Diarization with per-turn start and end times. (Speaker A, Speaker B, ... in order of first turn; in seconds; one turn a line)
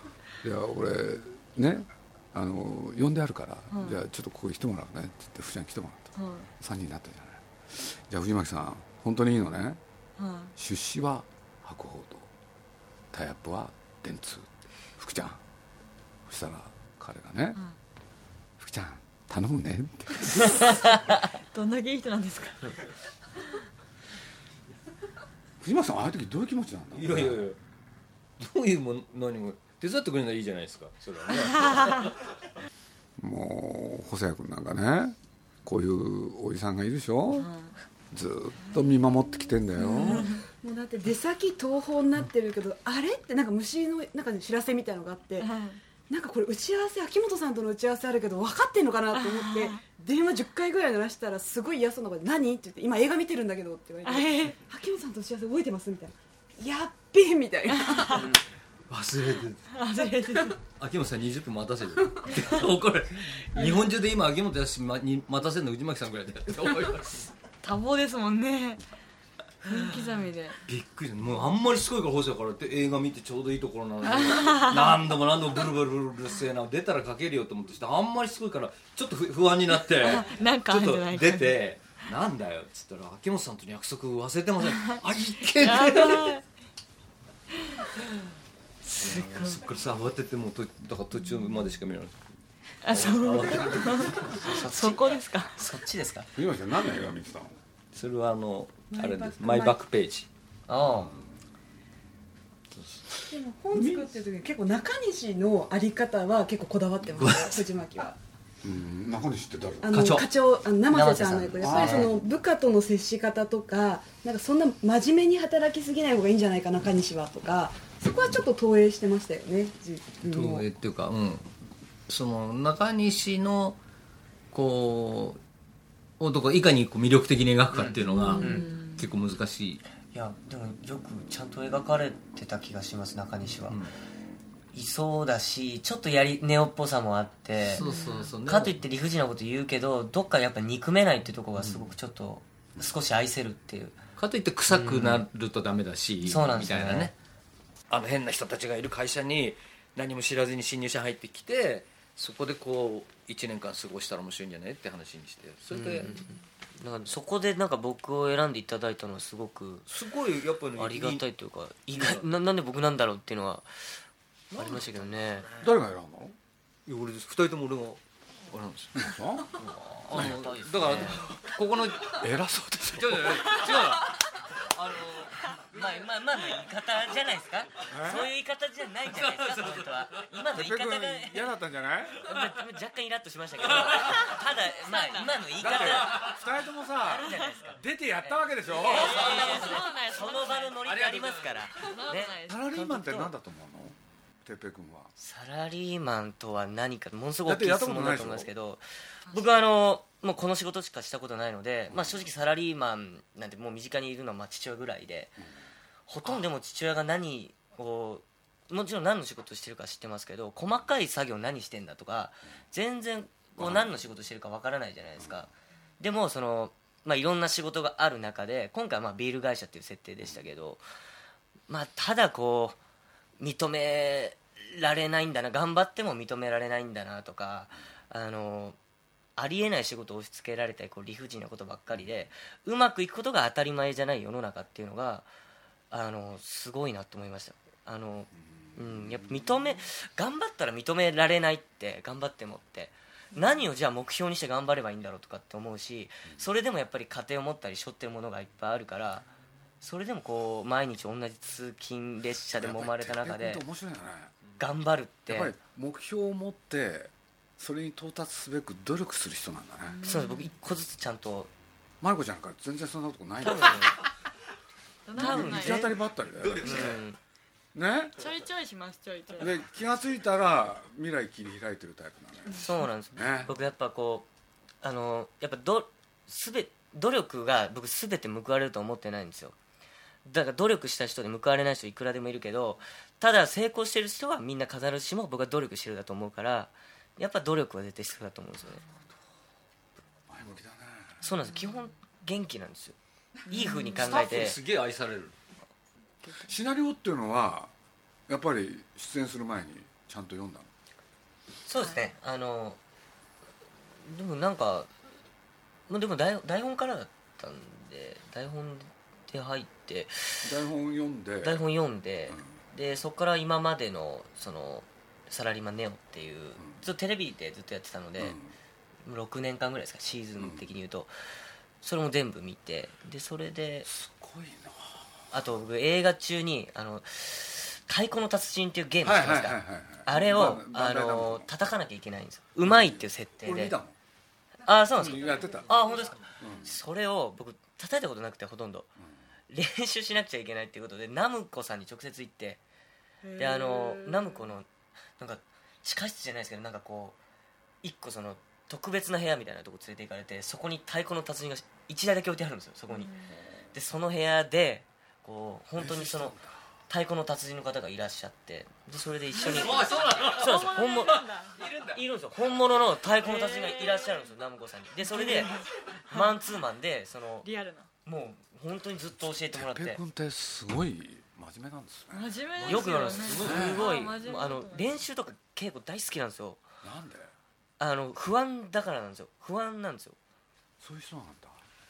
Speaker A: 0.4-9.8
Speaker B: 3.7-4.0
Speaker B: 6.2-6.5
Speaker B: 10.2-10.5
Speaker A: 10.6-12.3
Speaker A: 13.1-15.4
Speaker A: 16.2-17.6
Speaker A: 18.6-20.6
Speaker B: 21.1-22.9
Speaker A: 25.6-27.5
Speaker C: 26.9-27.6
Speaker C: 28.4-32.2
Speaker B: 31.6-32.1
Speaker A: 33.2-37.5
Speaker B: 37.3-37.7
Speaker A: 38.1-40.4
Speaker B: 39.8-40.4
Speaker D: 39.8-45.5
Speaker B: 45.4-45.8
Speaker D: 46.1-58.4
Speaker B: 49.1-49.8
Speaker B: 54.0-54.5
Speaker B: 57.7-58.3
Speaker C: 58.9-59.7
Speaker B: 59.7-60.6
Speaker C: 60.8-67.3
Speaker B: 67.6-68.8
Speaker B: 69.6-70.6
Speaker C: 69.6-86.4
Speaker B: 74.0-75.0
Speaker B: 80.0-81.6
Speaker B: 85.6-86.4
Speaker B: 88.8-89.6
Speaker C: 88.9-92.2
Speaker B: 92.8-95.5
Speaker C: 92.8-94.4
Speaker E: 94.2-96.3
Speaker A: 96.3-97.6
Speaker C: 97.9-100.3
Speaker D: 98.9-99.8
Speaker E: 100.7-101.1
Speaker C: 102.8-103.0
Speaker D: 103.2-108.2
Speaker A: 103.7-104.1
Speaker C: 107.2-107.6
Speaker A: 108.6-109.9
Speaker D: 109.8-120.7
Speaker C: 109.9-110.3
Speaker E: 110.9-112.1
Speaker A: 111.6-112.1
Speaker C: 120.2-121.5
Speaker C: 122.1-123.8
Speaker C: 124.5-125.4
Speaker C: 126.2-129.8
Speaker E: 127.7-128.7
Speaker B: 128.1-129.1
Speaker E: 130.1-133.8
Speaker E: 134.7-137.8
Speaker C: 137.6-138.8
Speaker B: 137.8-138.3
Speaker E: 138.4-144.0
Speaker C: 141.6-141.9
Speaker C: 144.2-147.1
Speaker E: 144.7-145.2
Speaker E: 146.2-147.1
Speaker C: 147.9-156.2
Speaker E: 155.7-159.8
Speaker C: 159.8-161.2
Speaker E: 160.8-164.0
Speaker C: 161.9-162.3
Speaker C: 164.5-165.7
Speaker E: 164.5-165.5
Speaker A: 165.6-166.3
Speaker C: 166.8-172.3
Speaker A: 168.9-169.5
Speaker E: 169.9-171.3
Speaker A: 172.1-173.6
Speaker C: 172.9-176.0
Speaker E: 175.7-181.5
Speaker A: 177.9-178.3
Speaker C: 179.1-180.2
Speaker A: 180.5-182.2
Speaker E: 182.2-186.4
Speaker B: 184.2-185.4
Speaker A: 185.6-189.2
Speaker E: 187.0-193.3
Speaker B: 188.8-190.8
Speaker C: 189.0-189.9
Speaker C: 190.8-191.8
Speaker B: 191.8-192.6
Speaker A: 192.4-195.1
Speaker E: 195.2-205.4
Speaker A: 197.4-198.5
Speaker B: 199.3-199.5
Speaker A: 201.9-202.3
Speaker E: 206.1-220.8
Speaker A: 213.6-214.0
Speaker A: 215.2-215.5
Speaker E: 221.7-222.8
Speaker E: 223.4-228.8
Speaker E: 229.4-235.3
Speaker E: 235.9-249.3
Speaker A: 238.7-239.7
Speaker B: 243.3-243.6
Speaker E: 249.8-253.6
Speaker A: 252.6-254.3
Speaker E: 254.6-255.5
Speaker A: 255.3-260.0
Speaker B: 259.9-260.5
Speaker E: 260.0-261.5
Speaker A: 262.0-264.0
Speaker E: 263.4-264.0
Speaker B: 265.1-265.9
Speaker E: 265.1-266.0
Speaker A: 265.1-267.0
Speaker C: 266.3-267.0
Speaker E: 266.6-267.2
Speaker A: 267.7-268.1
Speaker B: 268.2-269.5
Speaker A: 269.4-273.5
Speaker E: 272.6-274.3
Speaker E: 274.8-279.5
Speaker E: 280.2-288.8
Speaker A: 290.3-291.2
Speaker E: 291.2-292.9
Speaker B: 291.4-291.9
Speaker B: 293.5-294.2
Speaker E: 293.5-294.6
Speaker C: 294.0-295.3
Speaker B: 296.2-296.5
Speaker A: 296.4-297.7
Speaker A: 298.3-300.7
Speaker E: 301.6-302.8
Speaker E: 304.0-304.9
Speaker E: 305.9-310.5
Speaker A: 310.4-311.6
Speaker E: 311.4-318.4
Speaker A: 318.2-318.5
Speaker E: 319.0-321.1
Speaker A: 320.4-320.6
Speaker E: 321.8-323.9
Speaker A: 323.8-325.1
Speaker E: 325.3-333.8
Speaker A: 329.0-331.5
Speaker A: 332.6-333.9
Speaker E: 334.6-338.9
Speaker A: 335.0-335.7
Speaker C: 335.1-336.3
Speaker A: 336.4-336.7
Speaker E: 339.5-342.6
Speaker B: 343.2-344.5
Speaker E: 343.4-344.7
Speaker E: 345.2-347.2
Speaker E: 347.8-353.1
Speaker B: 352.9-353.3
Speaker E: 353.7-361.3
Speaker A: 355.8-356.6
Speaker C: 359.4-362.0
Speaker B: 359.4-361.6
Speaker E: 361.9-367.5
Speaker B: 363.2-364.2
Speaker B: 365.1-366.3
Speaker B: 367.4-367.9
Speaker E: 368.0-370.0
Speaker A: 369.2-372.4
Speaker B: 372.1-375.0
Speaker C: 372.6-373.9
Speaker E: 372.6-376.6
Speaker A: 373.4-373.8
Speaker A: 376.8-377.3
Speaker E: 377.8-380.2
Speaker A: 380.8-381.6